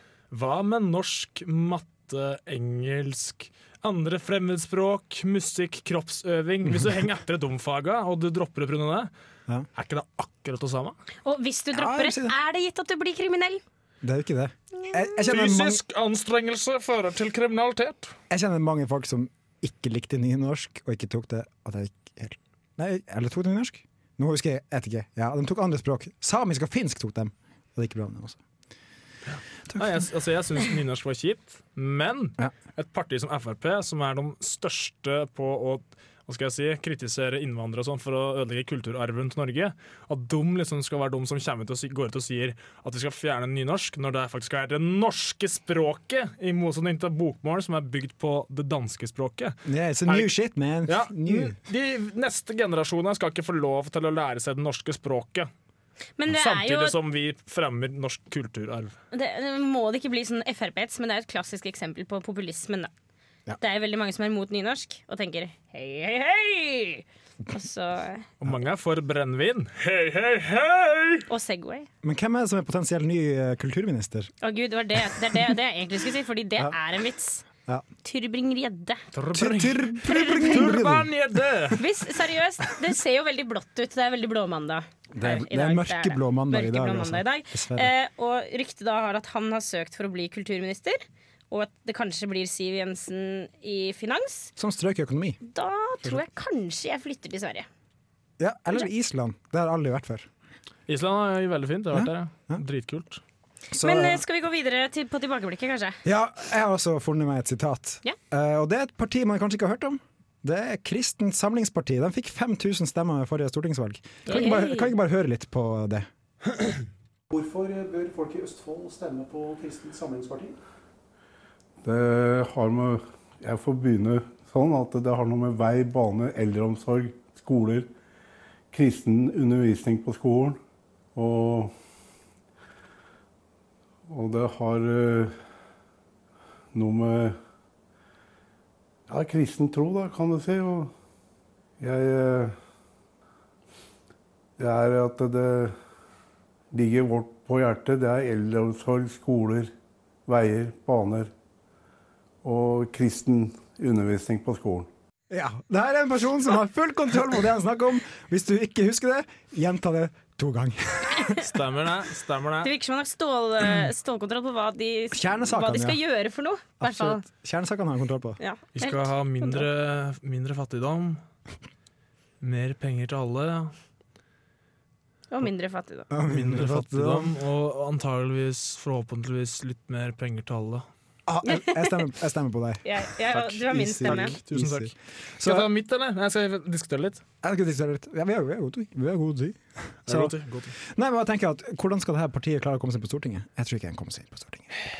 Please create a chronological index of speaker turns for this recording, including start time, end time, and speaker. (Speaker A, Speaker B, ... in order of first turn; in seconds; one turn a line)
Speaker A: 0.3-9.1
Speaker A: 9.8-10.9
Speaker B: 11.2-13.6
Speaker C: 11.7-12.3
Speaker C: 14.0-15.8
Speaker A: 15.3-18.1
Speaker C: 18.3-28.4
Speaker A: 29.3-49.5
Speaker C: 49.6-51.5
Speaker A: 50.1-50.3
Speaker A: 50.9-55.5
Speaker B: 56.2-57.0
Speaker A: 56.3-59.0
Speaker B: 59.1-62.9
Speaker B: 63.6-68.3
Speaker A: 68.4-71.2
Speaker B: 71.3-71.9
Speaker C: 72.0-74.3
Speaker B: 74.4-77.5
Speaker B: 78.0-79.0
Speaker A: 79.1-81.8
Speaker C: 79.3-81.1
Speaker B: 80.1-80.7
Speaker B: 81.8-91.0
Speaker C: 85.1-87.9
Speaker B: 91.5-94.5
Speaker C: 94.6-95.4
Speaker B: 95.5-97.7
Speaker C: 98.4-100.3
Speaker A: 100.9-103.2
Speaker C: 101.9-102.6
Speaker C: 103.7-104.2
Speaker B: 103.8-106.0
Speaker C: 106.0-116.1
Speaker B: 114.3-114.9
Speaker D: 117.3-120.6
Speaker E: 121.8-127.9
Speaker E: 128.7-130.6
Speaker E: 131.1-131.7
Speaker E: 134.1-135.3
Speaker E: 136.7-137.4
Speaker E: 139.1-140.9
Speaker E: 141.8-142.5
Speaker E: 144.6-145.7
Speaker E: 146.7-149.7
Speaker E: 150.3-151.3
Speaker E: 152.4-154.9
Speaker C: 155.3-161.4
Speaker A: 161.4-162.7
Speaker B: 162.6-167.2
Speaker C: 165.1-166.0
Speaker C: 166.8-168.4
Speaker B: 168.4-169.7
Speaker A: 168.7-171.2
Speaker A: 172.4-173.7
Speaker B: 175.3-176.1
Speaker C: 176.1-177.3
Speaker A: 176.3-180.8
Speaker C: 181.3-185.7
Speaker B: 181.4-182.0
Speaker B: 182.8-184.3
Speaker A: 184.0-187.2
Speaker C: 187.4-190.3
Speaker A: 190.1-190.7
Speaker C: 190.9-194.7